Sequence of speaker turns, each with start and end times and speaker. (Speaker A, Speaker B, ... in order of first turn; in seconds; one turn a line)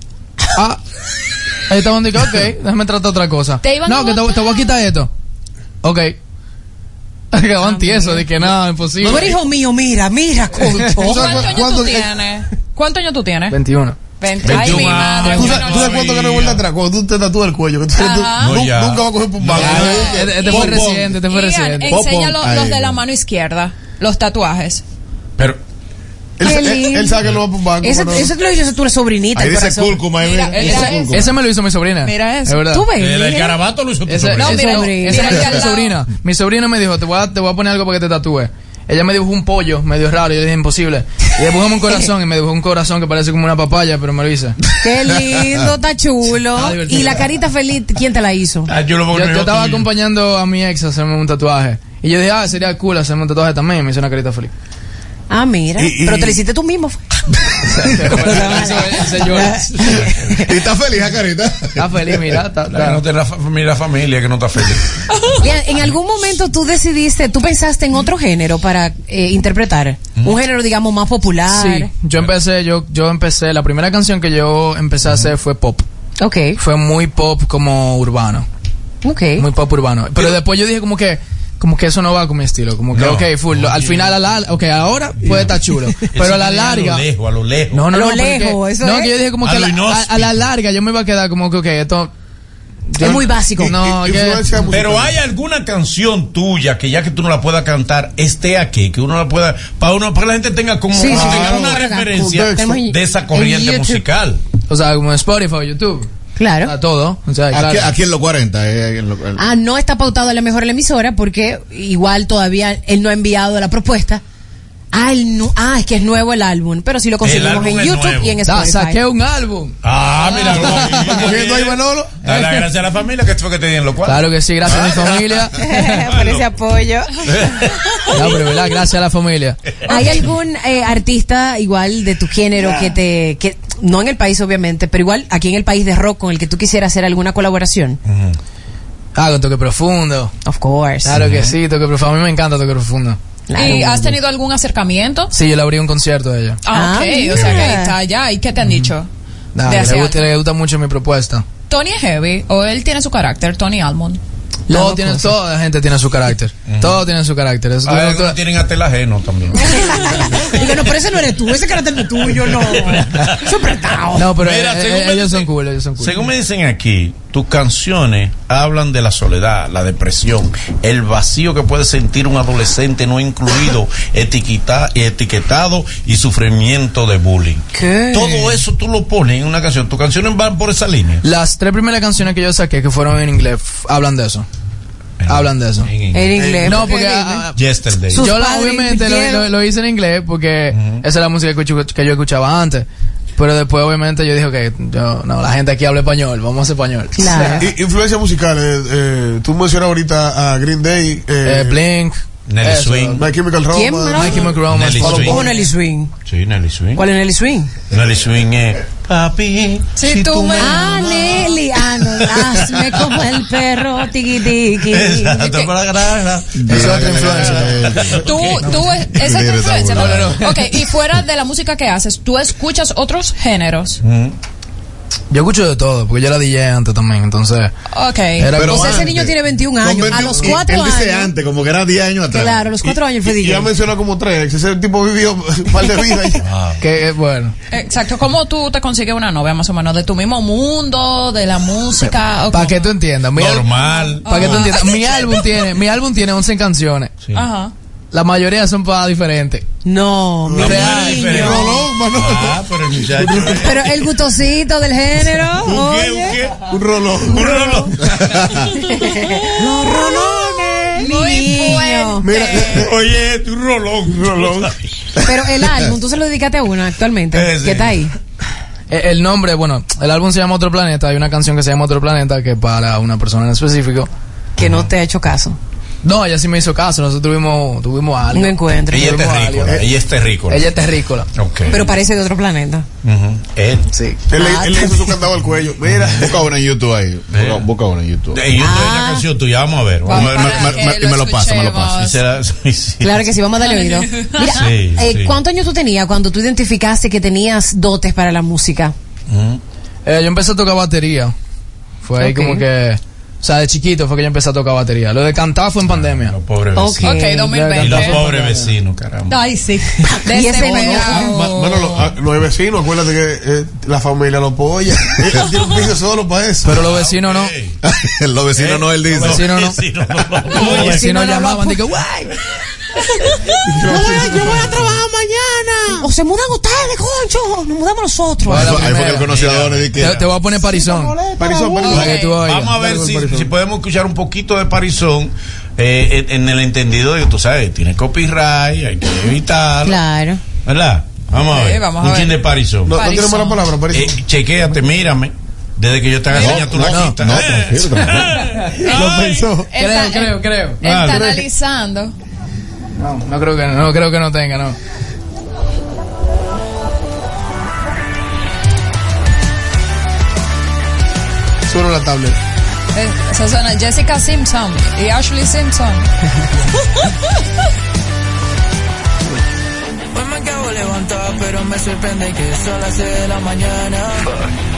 Speaker A: 1.7-5.1
Speaker B: 3.6-4.8
Speaker A: 5.8-6.2
Speaker A: 7.3-9.3
Speaker B: 7.6-8.3
Speaker C: 9.0-9.3
Speaker D: 9.0-11.5
Speaker C: 10.7-12.1
Speaker A: 10.8-11.1
Speaker B: 11.0-13.6
Speaker A: 13.5-14.0
Speaker B: 14.2-16.0
Speaker E: 14.4-16.6
Speaker C: 14.5-20.3
Speaker B: 18.0-18.6
Speaker E: 18.4-21.2
Speaker F: 19.6-20.0
Speaker B: 19.7-24.8
Speaker A: 20.1-22.0
Speaker F: 21.9-23.0
Speaker C: 26.4-28.3
Speaker D: 26.4-27.2
Speaker D: 27.8-30.1
Speaker F: 29.4-31.2
Speaker B: 30.2-31.3
Speaker D: 30.6-31.2
Speaker A: 31.1-32.9
Speaker B: 32.0-32.7
Speaker D: 32.7-33.6
Speaker E: 33.0-34.8
Speaker A: 34.0-44.6
Speaker B: 34.4-36.0
Speaker D: 34.4-35.6
Speaker D: 44.8-48.7
Speaker A: 46.6-47.3
Speaker E: 48.7-49.9
Speaker A: 49.1-54.5
Speaker D: 55.3-57.2
Speaker C: 55.8-56.4
Speaker A: 57.7-60.1
Speaker D: 57.8-60.5
Speaker F: 60.5-62.4
Speaker A: 61.8-63.0
Speaker E: 62.7-64.9
Speaker B: 65.1-65.5
Speaker D: 65.4-71.9
Speaker A: 71.5-75.8
Speaker E: 75.0-75.3
Speaker D: 76.2-76.6
Speaker A: 76.6-78.5
Speaker D: 79.0-79.5
Speaker A: 79.4-87.1
Speaker E: 82.9-84.2
Speaker E: 85.2-87.9
Speaker A: 87.7-92.1
Speaker D: 87.9-89.2
Speaker E: 89.4-90.5
Speaker A: 92.9-94.5
Speaker D: 93.0-93.8
Speaker C: 93.1-95.2
Speaker E: 94.7-104.4
Speaker D: 100.9-104.0
Speaker C: 101.0-102.7
Speaker A: 104.7-106.1
Speaker D: 106.4-106.7
Speaker A: 106.7-107.9
Speaker F: 107.5-109.4
Speaker D: 109.4-114.2
Speaker D: 114.9-119.0
Speaker E: 117.2-118.4
Speaker A: 118.4-119.8
Speaker E: 119.8-126.5
Speaker A: 120.5-121.3
Speaker C: 120.6-122.2
Speaker A: 122.3-122.7
Speaker A: 124.0-125.6
Speaker D: 125.6-127.1
Speaker E: 127.2-128.4
Speaker A: 128.1-129.6
Speaker E: 129.8-130.3
Speaker D: 129.9-138.0
Speaker E: 138.1-138.4
Speaker A: 139.2-140.3
Speaker D: 140.4-141.2
Speaker A: 141.0-143.2
Speaker E: 141.1-141.6
Speaker D: 143.5-144.2
Speaker B: 143.6-145.3
Speaker A: 145.3-146.6
Speaker B: 146.6-149.1
Speaker D: 146.7-147.9
Speaker A: 148.6-148.9
Speaker A: 149.6-151.5
Speaker B: 149.6-150.3
Speaker B: 151.7-154.2
Speaker D: 154.7-155.3
Speaker A: 154.7-158.4
Speaker E: 156.7-157.1
Speaker E: 157.8-160.8
Speaker D: 159.6-164.3
Speaker E: 162.4-163.6
Speaker A: 164.2-166.3
Speaker E: 164.2-181.2
Speaker D: 177.7-178.6
Speaker A: 181.2-184.5
Speaker E: 185.2-187.0
Speaker A: 185.3-185.9
Speaker D: 186.1-187.5
Speaker A: 186.6-187.6
Speaker E: 187.6-188.3
Speaker D: 188.1-189.5
Speaker A: 188.1-197.6
Speaker E: 190.7-191.1
Speaker D: 197.2-197.7
Speaker C: 197.6-201.8
Speaker A: 201.4-203.2
Speaker E: 202.5-203.2
Speaker C: 203.2-205.5
Speaker D: 203.7-206.1
Speaker A: 204.1-205.5
Speaker E: 204.7-205.4
Speaker E: 206.3-207.0
Speaker D: 207.0-207.7
Speaker E: 207.9-211.6
Speaker B: 210.0-211.4
Speaker D: 210.6-215.7
Speaker E: 212.1-213.2
Speaker E: 214.9-219.3
Speaker F: 216.6-218.2
Speaker A: 216.7-217.7
Speaker B: 218.2-224.0
Speaker F: 219.1-220.4
Speaker A: 220.0-220.4
Speaker E: 224.0-224.4
Speaker A: 225.3-227.7
Speaker B: 227.9-228.6
Speaker A: 228.4-229.1
Speaker F: 228.5-232.7
Speaker D: 228.6-231.3
Speaker C: 230.1-230.5
Speaker D: 232.3-233.7
Speaker C: 233.2-236.4
Speaker E: 236.4-236.8
Speaker A: 236.8-237.6
Speaker B: 237.7-243.0
Speaker A: 242.5-243.7
Speaker E: 243.3-244.9
Speaker B: 244.2-245.5
Speaker A: 244.3-247.2
Speaker B: 247.3-247.7
Speaker A: 248.1-249.7
Speaker D: 249.8-251.9
Speaker C: 250.5-253.8
Speaker E: 250.6-254.0
Speaker A: 250.7-251.3
Speaker D: 253.5-256.4
Speaker E: 255.6-259.0
Speaker C: 256.7-257.9
Speaker D: 259.4-262.3
Speaker B: 261.0-262.9
Speaker C: 262.2-262.9
Speaker E: 262.7-264.9
Speaker C: 264.1-264.7
Speaker D: 265.2-268.1
Speaker E: 267.3-268.0
Speaker A: 268.9-274.1
Speaker D: 274.6-275.6
Speaker E: 274.6-274.9
Speaker A: 276.0-279.9
Speaker D: 278.3-279.4
Speaker E: 278.9-280.7
Speaker A: 280.5-281.3
Speaker E: 281.4-281.9
Speaker D: 281.7-282.9
Speaker E: 283.0-283.9
Speaker A: 283.9-284.2
Speaker C: 284.3-286.4
Speaker D: 284.3-285.2
Speaker F: 286.0-288.4
Speaker E: 287.3-287.6
Speaker E: 288.3-290.8
Speaker D: 288.6-289.2
Speaker B: 290.1-292.2
Speaker F: 290.1-292.0
Speaker E: 291.9-293.3
Speaker D: 293.0-298.9
Speaker B: 293.6-294.6
Speaker E: 294.5-295.4
Speaker E: 299.3-299.6
Speaker A: 300.1-301.4
Speaker A: 302.0-306.4
Speaker D: 302.2-302.6
Speaker E: 305.9-307.2
Speaker D: 306.8-307.8
Speaker B: 307.0-308.2
Speaker A: 307.6-308.7
Speaker E: 307.8-309.4
Speaker B: 309.3-312.1
Speaker D: 310.0-311.3
Speaker C: 310.6-316.8
Speaker A: 316.7-317.5
Speaker E: 316.9-317.8
Speaker F: 317.8-319.7
Speaker E: 318.6-321.3
Speaker A: 319.2-319.8
Speaker A: 320.5-322.3
Speaker D: 320.6-321.5
Speaker B: 320.8-321.8
Speaker C: 323.6-326.0
Speaker D: 323.8-325.0
Speaker E: 324.4-324.7
Speaker D: 325.9-328.8
Speaker A: 328.4-329.3
Speaker F: 328.5-330.2
Speaker E: 329.2-330.3
Speaker A: 330.0-331.2
Speaker D: 330.6-332.0
Speaker C: 331.4-333.5
Speaker B: 331.8-332.4
Speaker E: 331.9-340.0
Speaker A: 331.9-332.8
Speaker D: 339.9-340.4
Speaker E: 340.6-342.9
Speaker B: 341.5-342.4
Speaker C: 342.9-344.1
Speaker B: 342.9-343.7
Speaker E: 343.9-349.5
Speaker F: 346.3-348.4
Speaker A: 346.8-347.2
Speaker C: 348.8-349.7
Speaker B: 349.7-352.1
Speaker A: 349.8-350.8
Speaker E: 350.8-351.4
Speaker A: 353.0-354.8
Speaker C: 361.7-362.4
Speaker B: 362.9-366.1
Speaker G: 370.1-374.3